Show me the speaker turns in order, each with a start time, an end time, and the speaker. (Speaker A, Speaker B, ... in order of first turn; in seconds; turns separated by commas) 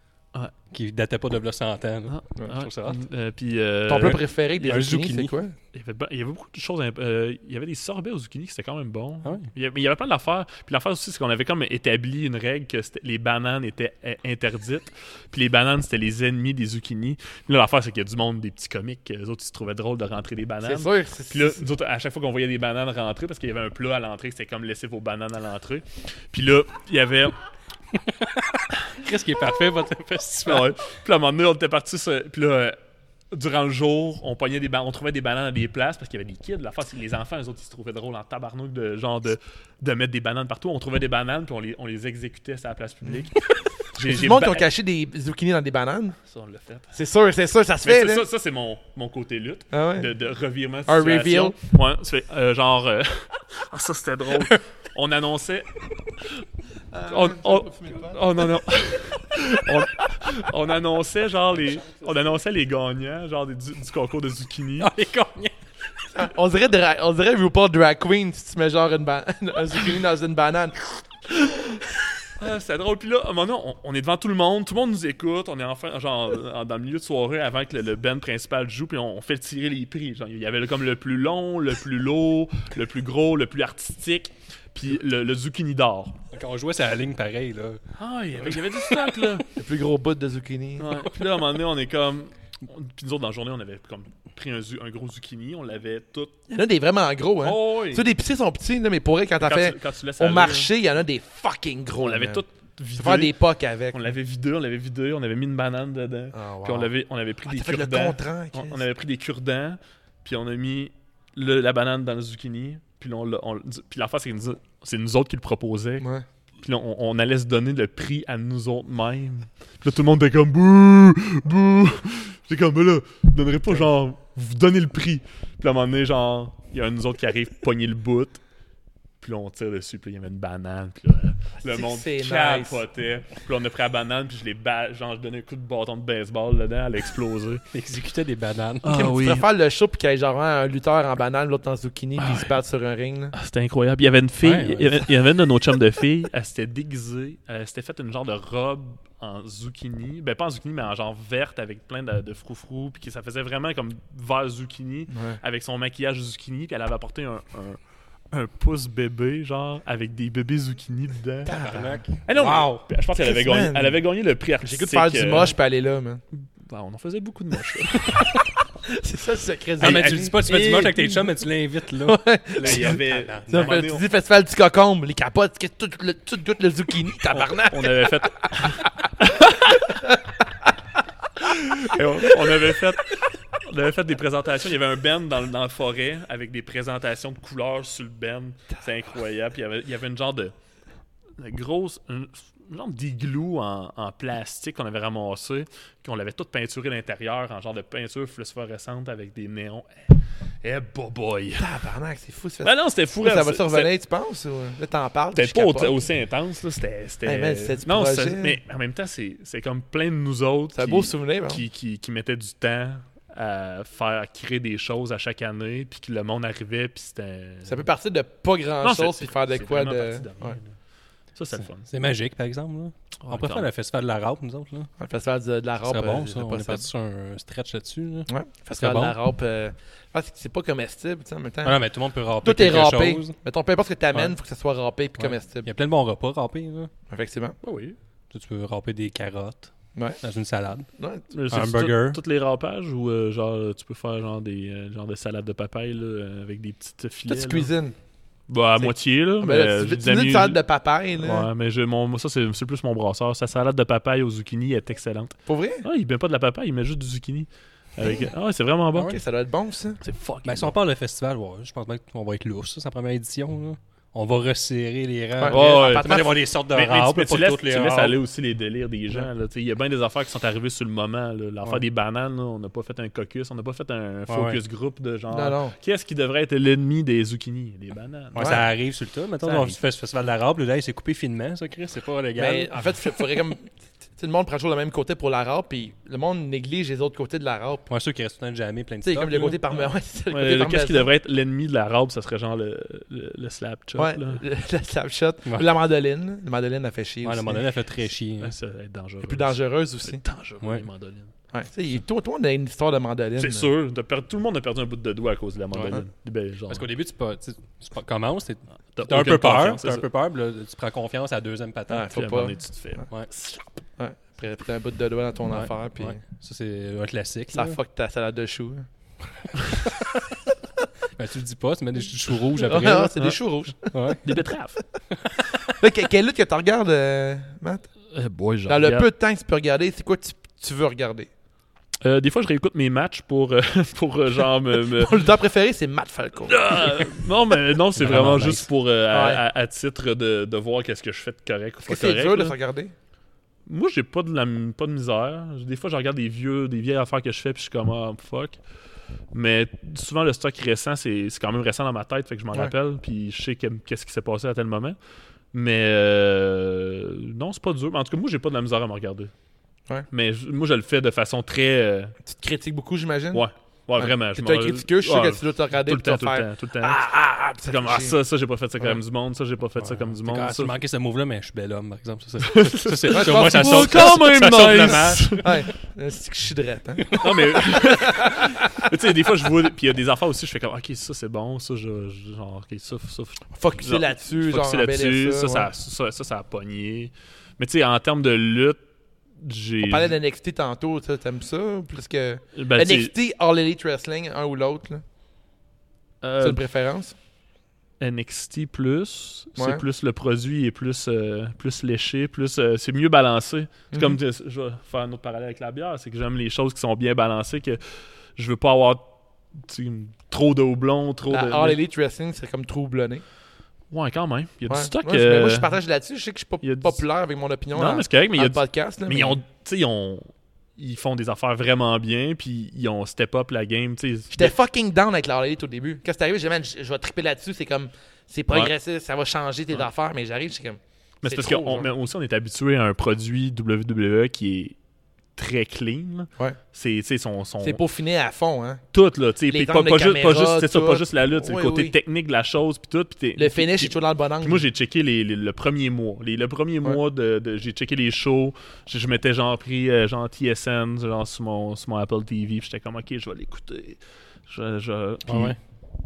Speaker A: 0.7-3.0, Speaker B: 2.1-4.2, Speaker C: 3.9-5.5, Speaker A: 4.0-5.3, Speaker B: 5.7-27.4, Speaker A: 9.2-9.5, Speaker C: 20.6-21.6, Speaker A: 27.9-30.7, Speaker B: 30.4-32.8, Speaker B: 33.3-44.7, Speaker C: 44.0-46.2, Speaker B: 46.3-47.0, Speaker C: 46.9-48.2, Speaker B: 47.8-55.7, Speaker C: 49.7-50.1, Speaker C: 50.9-51.6, Speaker C: 57.0-58.1, Speaker B: 57.0-64.9, Speaker A: 64.8-65.6, Speaker C: 66.1-71.5, Speaker B: 72.4-86.2, Speaker A: 86.3-87.8, Speaker B: 88.0-89.5, Speaker A: 88.4-89.4, Speaker C: 89.5-90.9, Speaker B: 90.8-96.3, Speaker A: 90.9-91.2, Speaker C: 96.5-102.4, Speaker B: 97.4-98.1, Speaker B: 99.4-100.7, Speaker B: 102.0-103.3, Speaker C: 103.0-104.1, Speaker B: 103.9-116.1, Speaker C: 106.3-106.9, Speaker C: 107.5-108.8, Speaker C: 116.0-116.2, Speaker B: 116.6-128.4, Speaker B: 129.2-137.6, Speaker C: 131.6-132.8, Speaker A: 137.7-138.9, Speaker B: 138.8-139.4, Speaker C: 138.9-143.3, Speaker B: 142.2-142.5, Speaker B: 143.3-157.8, Speaker A: 144.4-145.1, Speaker C: 155.1-155.4, Speaker B: 158.3-161.6, Speaker C: 161.5-164.0, Speaker A: 161.5-162.2, Speaker B: 162.2-165.6, Speaker C: 164.6-166.2, Speaker B: 166.6-168.4, Speaker C: 167.9-171.1, Speaker B: 169.8-171.0, Speaker A: 169.8-173.8, Speaker C: 172.0-178.9, Speaker B: 172.6-174.1, Speaker B: 177.7-179.8, Speaker C: 179.6-180.7, Speaker C: 181.4-182.7, Speaker B: 181.8-190.5, Speaker B: 191.4-201.7, Speaker C: 201.6-206.0, Speaker B: 202.6-203.9, Speaker B: 205.3-217.9, Speaker C: 207.2-208.6, Speaker C: 210.8-211.6, Speaker C: 217.7-220.6, Speaker B: 218.8-220.7, Speaker B: 221.3-221.9, Speaker A: 221.8-224.9, Speaker B: 223.2-223.7, Speaker C: 225.0-226.8, Speaker A: 225.8-229.2, Speaker C: 228.3-231.8, Speaker A: 231.6-233.3, Speaker C: 232.4-235.7, Speaker A: 235.2-236.9, Speaker C: 237.1-237.6, Speaker B: 237.6-238.0, Speaker A: 238.3-240.9, Speaker C: 241.0-241.3, Speaker B: 241.3-247.7, Speaker A: 241.5-242.2, Speaker C: 247.3-247.9, Speaker B: 248.5-250.6, Speaker C: 248.8-251.5, Speaker B: 251.2-259.2, Speaker C: 255.5-255.9, Speaker C: 259.0-260.0, Speaker B: 260.0-260.7, Speaker A: 260.4-268.2, Speaker C: 265.4-266.3, Speaker B: 265.5-278.6, Speaker A: 274.3-274.6, Speaker C: 275.3-275.8, Speaker A: 278.3-283.2, Speaker C: 278.4-278.6, Speaker B: 279.4-279.8, Speaker C: 282.4-287.9, Speaker A: 287.9-289.6, Speaker C: 289.0-291.1, Speaker B: 290.3-294.4, Speaker C: 294.0-297.6, Speaker A: 297.2-298.6, Speaker B: 298.4-301.3, Speaker C: 299.2-300.2, Speaker A: 300.6-300.9, Speaker C: 301.5-303.7, Speaker B: 303.4-306.9, Speaker A: 306.7-312.1, Speaker B: 308.9-310.1, Speaker C: 311.9-312.6, Speaker B: 312.1-313.6, Speaker C: 314.0-316.2, Speaker A: 315.5-317.8, Speaker C: 317.5-318.9, Speaker A: 321.2-323.2, Speaker C: 322.6-324.2, Speaker A: 323.9-324.2, Speaker B: 324.2-324.8, Speaker A: 325.1-325.7, Speaker C: 325.6-327.9, Speaker B: 328.1-329.1, Speaker C: 328.7-331.3, Speaker B: 332.0-335.2, Speaker C: 335.0-337.1, Speaker B: 336.5-342.6, Speaker A: 338.0-338.7, Speaker C: 339.1-339.4, Speaker C: 341.8-342.9, Speaker B: 343.7-348.6, Speaker B: 349.3-355.0, Speaker B: 355.5-359.3, Speaker B: 360.1-362.2, Speaker C: 362.3-363.4, Speaker B: 363.3-367.1, Speaker C: 364.0-368.2, Speaker B: 367.6-370.7, Speaker A: 369.8-375.5, Speaker B: 372.4-375.5, Speaker C: 373.1-374.9, Speaker C: 375.4-378.8, Speaker A: 377.1-377.4, Speaker B: 377.2-388.8, Speaker C: 383.5-385.7, Speaker B: 389.4-390.1, Speaker C: 389.8-395.0, Speaker B: 392.6-393.1, Speaker B: 396.2-396.6, Speaker C: 396.4-397.1, Speaker B: 398.0-407.8, Speaker C: 399.6-399.8, Speaker C: 403.9-404.2, Speaker B: 408.4-411.8, Speaker C: 411.3-413.2, Speaker B: 413.9-415.8, Speaker C: 414.7-419.4, Speaker B: 416.6-417.0, Speaker B: 417.7-424.5, Speaker C: 424.3-431.9, Speaker B: 431.2-434.8, Speaker B: 435.4-437.8, Speaker C: 437.6-438.8, Speaker B: 438.9-455.6, Speaker C: 439.5-441.9, Speaker C: 443.4-444.6, Speaker A: 455.3-455.6